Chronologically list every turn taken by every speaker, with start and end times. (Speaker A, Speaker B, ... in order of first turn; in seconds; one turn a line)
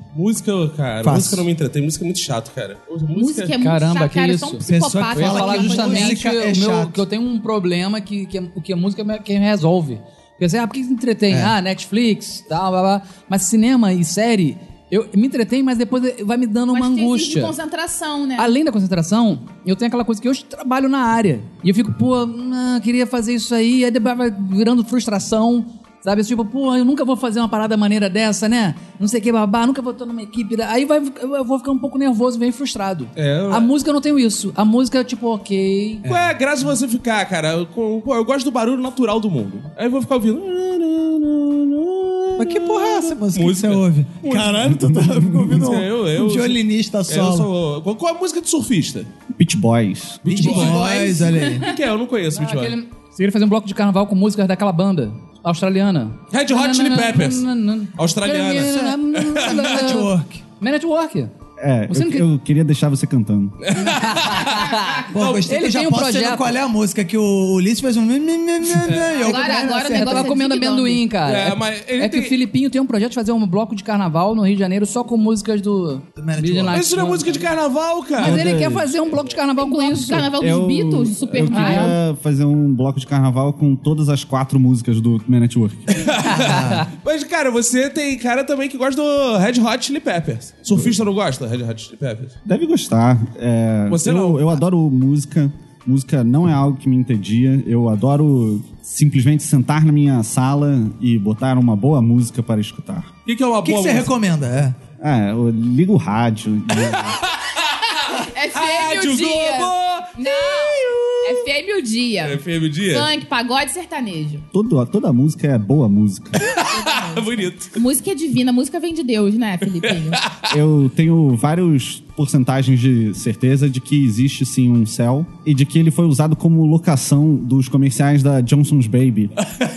Speaker A: 0.1-3.5
Speaker B: 1.0-1.4
Speaker C: 3.1-6.2
Speaker D: 3.6-17.6
Speaker B: 4.7-7.0
Speaker C: 16.7-18.5
Speaker D: 18.4-36.0
Speaker A: 33.2-33.7
Speaker B: 36.0-36.3
Speaker A: 36.0-49.1
Speaker B: 42.4-47.5
Speaker E: 49.3-50.4
Speaker A: 50.2-50.9
Speaker B: 50.3-51.7
Speaker C: 50.7-51.7
Speaker D: 50.9-51.2
Speaker A: 51.6-52.8
Speaker D: 52.4-61.3
Speaker A: 56.3-59.9
Speaker B: 58.6-60.4
Speaker E: 61.6-63.6
Speaker D: 61.9-62.3
Speaker A: 63.6-65.4
Speaker D: 63.8-66.5
Speaker B: 65.1-70.4
Speaker C: 69.2-71.0
Speaker D: 69.7-77.5
Speaker A: 71.2-72.4
Speaker B: 76.2-76.8
Speaker A: 76.7-78.4
Speaker E: 78.2-79.0
Speaker D: 78.2-80.3
Speaker C: 79.6-82.0
Speaker E: 80.3-86.5
Speaker D: 81.5-82.0
Speaker A: 85.9-92.3
Speaker B: 86.3-86.9
Speaker E: 92.5-103.1
Speaker A: 93.9-94.6
Speaker A: 103.3-104.1
Speaker B: 103.6-104.8
Speaker E: 105.0-107.2
Speaker A: 106.9-111.5
Speaker C: 108.2-114.5
Speaker A: 112.2-113.1
Speaker E: 114.5-116.5
Speaker A: 116.5-117.8
Speaker C: 116.6-120.2
Speaker A: 119.8-120.5
Speaker E: 120.5-129.4